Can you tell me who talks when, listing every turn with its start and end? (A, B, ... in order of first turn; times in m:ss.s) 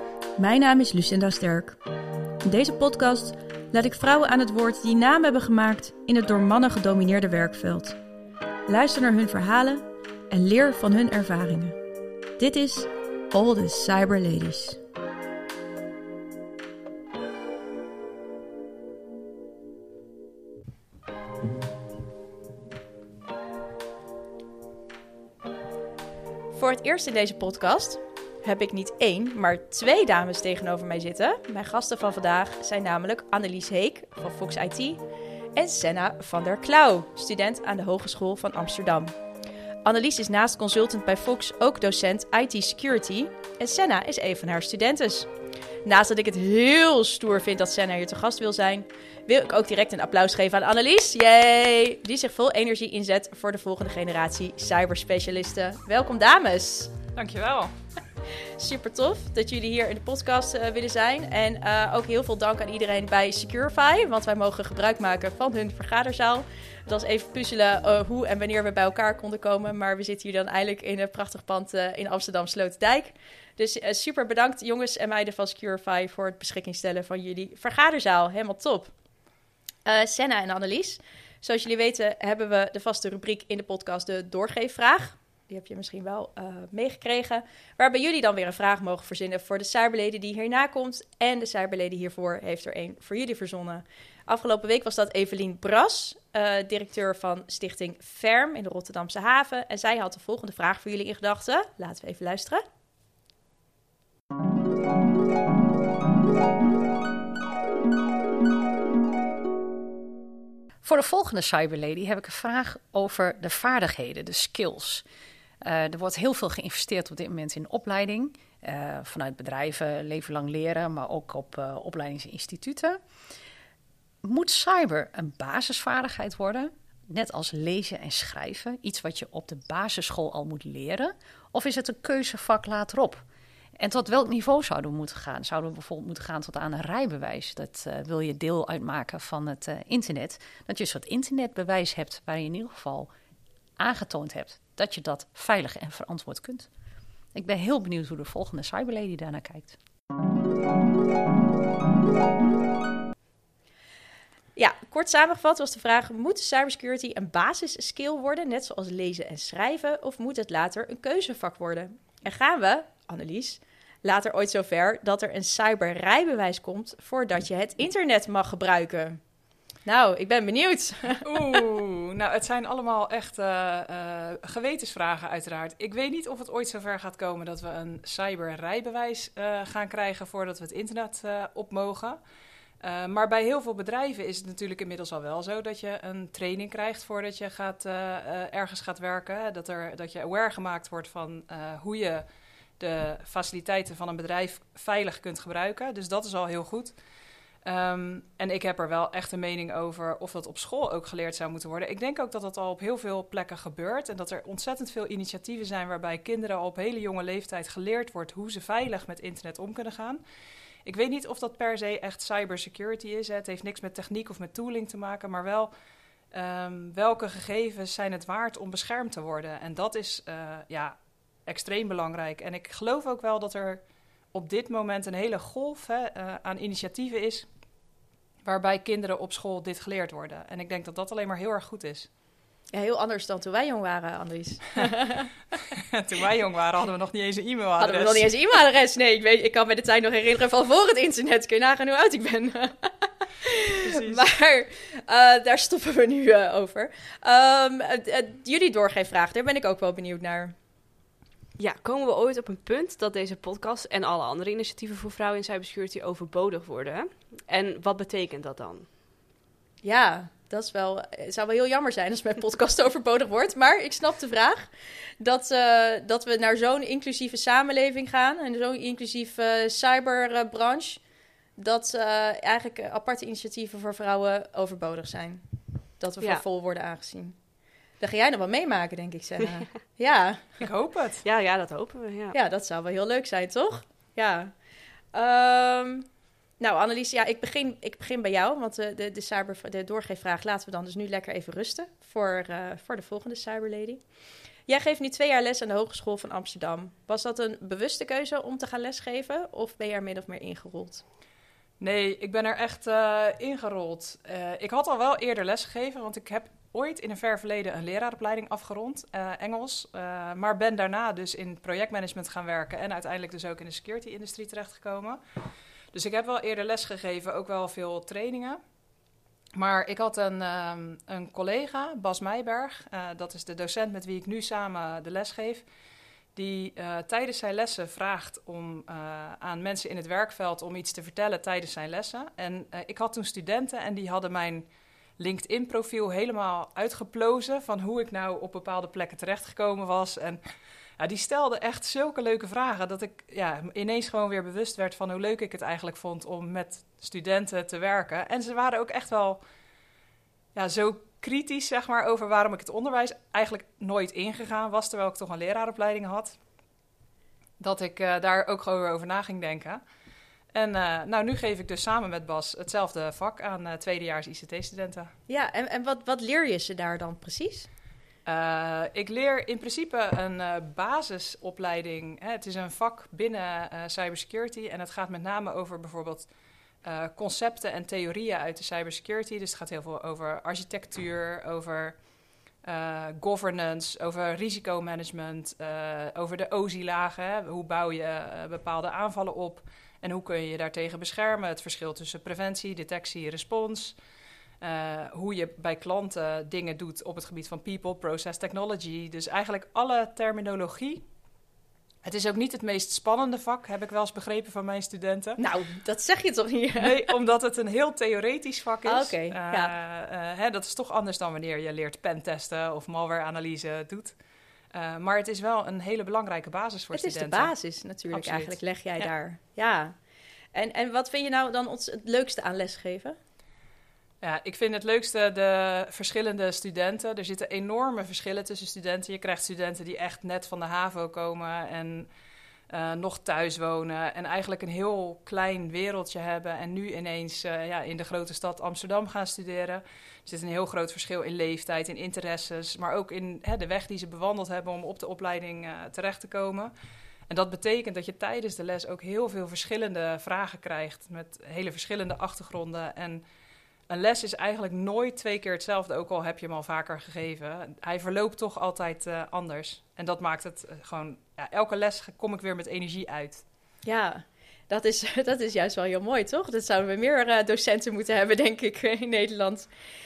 0:00.4-0:01.8 A
0:02.4-0:08.0 A
0:08.7-0:11.8 A
0:12.4-0:14.8 A
0:26.5-0:35.0 A
0:35.5-0:39.1 A
0:39.8-0:45.3 A
0:45.8-0:56.9 A
0:57.1-0:57.7 B
0:58.6-1:18.9 A
1:19.8-1:42.6 A
1:50.8-1:55.0 C
1:55.6-2:03.0 C
2:04.2-2:13.2 C
2:13.8-2:23.1 C
2:23.8-2:26.7 C
2:27.3-2:29.8 C
2:34.6-2:49.2 A
2:49.8-2:51.3 A
2:51.2-3:02.2 B
3:02.8-3:12.2 B
3:12.8-3:17.0 B
3:17.6-3:30.2 B
3:30.8-3:35.7 B
3:36.3-3:47.4 B
3:48.4-3:52.1 B
3:52.7-3:55.3 A
3:55.9-3:58.2 B
3:57.8-4:10.5 A
4:03.8-4:04.2 B
4:11.6-4:18.9 D
4:19.8-4:31.0 A
4:31.6-4:35.4 A
4:36.0-4:37.4 A
4:38.0-4:40.6 A
4:40.6-4:41.2 B
4:41.2-4:42.4 D
4:42.3-4:44.5 A
4:45.1-4:54.0 A
4:54.6-5:01.0 A
5:01.8-5:15.2 B
5:15.9-5:18.6 B
5:19.5-5:25.6 B
5:26.3-5:34.7 B
5:35.2-5:40.4 B
5:41.0-5:49.4 B
5:50.5-5:56.4 B
5:57.6-5:59.8 B
6:00.5-6:05.1 B
6:05.3-6:07.7 A
6:08.2-6:16.3 B
6:16.8-6:22.0 B
6:22.6-6:34.0 B
6:34.6-6:41.0 B
6:42.0-6:45.4 B
6:45.4-6:47.0 A
6:46.8-6:54.1 B
6:48.8-6:49.7 A
6:54.7-6:57.5 B
6:56.9-7:00.0 A
6:58.1-6:58.6 B
7:00.5-7:03.2 A
7:04.2-7:12.1 B
7:12.7-7:26.7 B
7:27.3-7:33.2 B
7:33.9-7:43.4 B
7:43.8-7:49.7 A